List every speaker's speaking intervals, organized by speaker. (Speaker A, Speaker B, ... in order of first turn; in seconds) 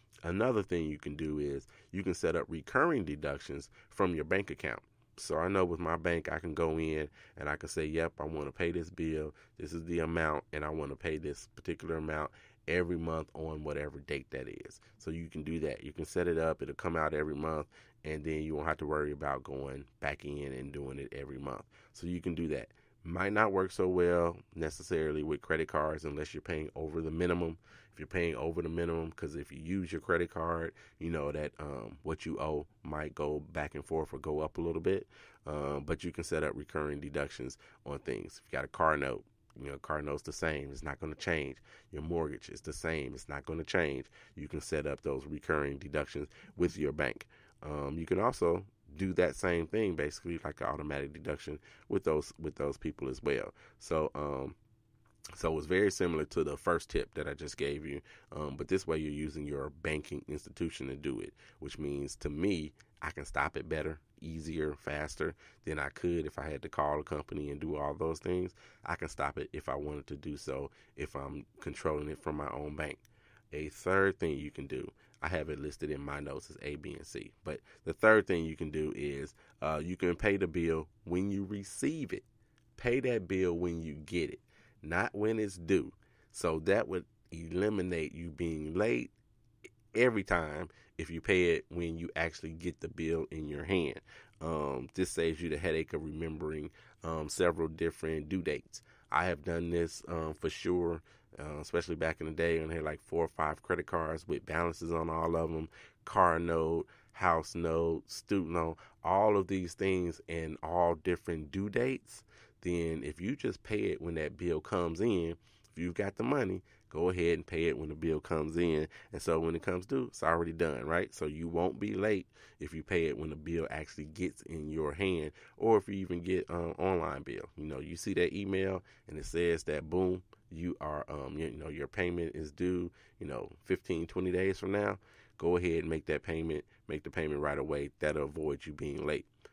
Speaker A: 0.2-54.6, 55.4-82.2, 82.8-89.1, 89.9-139.3